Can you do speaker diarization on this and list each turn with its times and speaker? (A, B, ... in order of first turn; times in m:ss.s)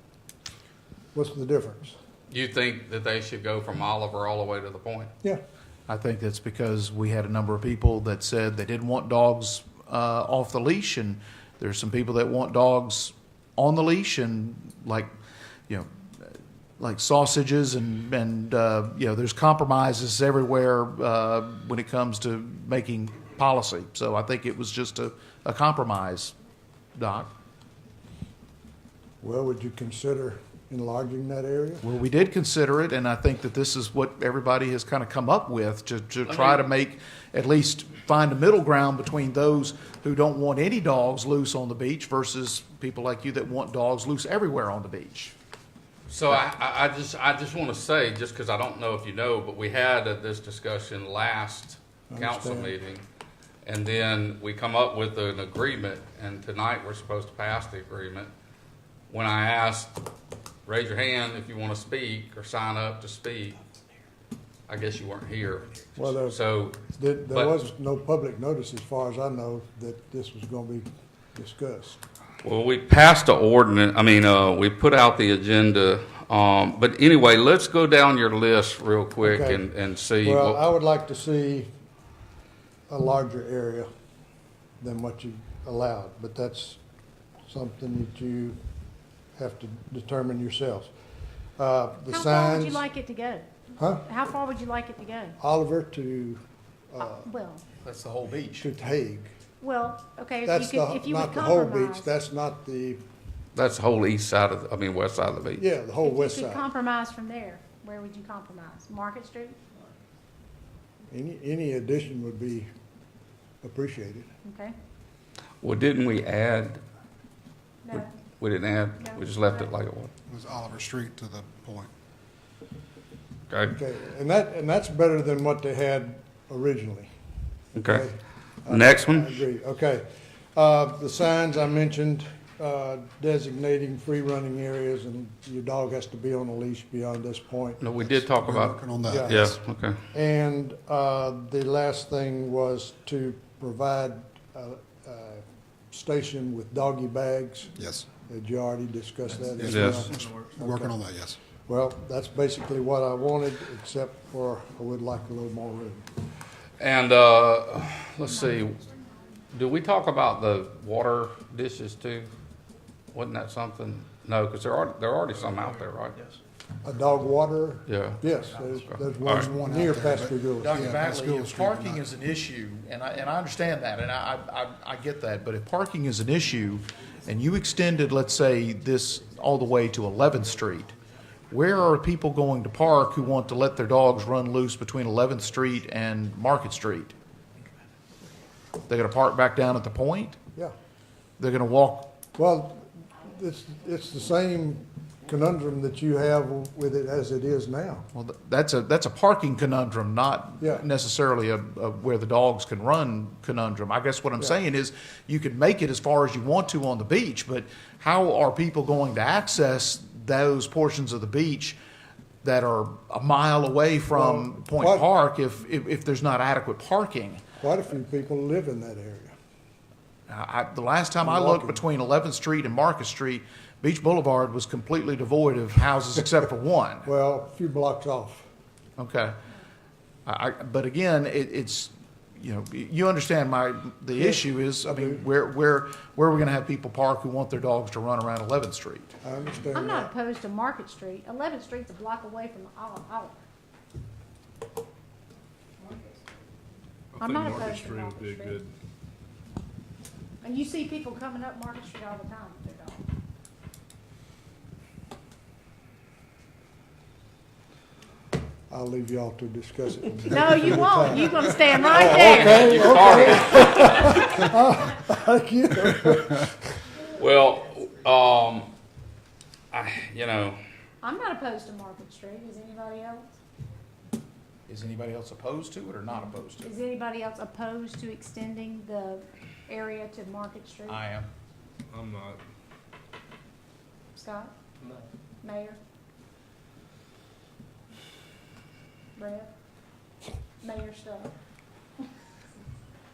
0:01.1-0:01.9 A
0:02.3-0:05.1 B
0:05.9-0:15.1 C
0:15.7-0:26.3 C
0:26.9-0:27.3 C
0:29.2-0:31.8 A
0:31.8-0:45.3 C
0:36.3-0:36.6 B
0:46.1-0:53.0 B
0:52.1-0:52.7 A
0:53.6-0:58.3 B
0:59.1-1:00.0 B
1:00.6-1:03.6 B
1:04.7-1:07.5 B
1:06.0-1:12.0 A
1:12.4-1:20.6 B
1:19.2-1:19.6 A
1:20.2-1:21.7 A
1:22.9-1:23.9 A
1:24.8-1:26.8 A
1:27.5-1:28.6 A
1:29.4-1:30.9 A
1:31.6-1:32.8 A
1:32.0-1:33.5 D
1:33.8-1:34.0 A
1:34.0-1:35.4 D
1:35.4-1:37.3 A
1:37.0-1:37.6 D
1:37.8-1:38.5 C
1:38.6-1:39.3 A
1:39.6-1:42.1 D
1:40.4-1:43.0 A
1:43.5-1:45.6 B
1:45.6-1:46.6 A
1:46.0-1:49.6 D
1:51.1-1:52.7 A
1:53.6-1:54.3 A
1:54.4-1:54.7 D
1:55.6-1:56.8 B
1:57.8-1:58.2 D
1:58.4-2:00.1 B
1:59.0-1:59.6 D
2:00.3-2:01.9 E
2:03.5-2:03.7 B
2:03.7-2:07.1 A
2:07.8-2:08.0 B
2:07.8-2:17.8 A
2:08.7-2:09.4 B
2:17.8-2:20.0 B
2:17.9-2:19.6 E
2:19.1-2:19.5 A
2:20.1-2:31.0 A
2:27.8-2:28.0 E
2:29.6-2:31.4 E
2:29.6-2:30.0 B
2:31.6-2:36.1 A
2:36.8-2:38.8 B
2:38.3-2:38.7 D
2:39.5-2:42.3 B
2:43.1-2:46.2 B
2:46.8-2:51.0 A
2:47.9-2:49.4 B
2:49.3-2:52.0 E
2:50.6-3:00.9 C
3:01.5-3:07.1 C
3:08.9-3:10.4 C
3:11.4-3:12.1 C
3:12.3-3:18.0 A
3:18.1-3:31.8 C
3:32.4-3:37.4 C
3:34.1-3:35.1 A
3:37.6-3:39.3 A
3:40.3-3:47.1 C
3:41.2-3:41.8 A
3:47.0-3:48.5 A
3:49.0-3:49.4 C
3:50.2-3:59.1 C
3:54.2-3:55.2 A
3:59.2-4:00.1 A
3:59.7-4:03.4 D
4:07.2-4:08.7 F
4:07.2-4:08.6 D
4:10.4-4:13.0 D
4:18.7-4:26.6 A
4:20.2-4:23.4 D
4:22.1-4:24.4 B
4:27.1-4:28.7 B
4:29.7-4:30.6 B
4:31.0-4:33.3 D
4:34.7-4:36.7 C
4:36.6-4:41.0 D
4:40.9-4:41.3 C
4:41.9-4:42.3 F
4:44.1-4:44.5 D
4:45.4-4:45.8 D
4:49.2-4:49.5 D
4:50.6-4:51.3 D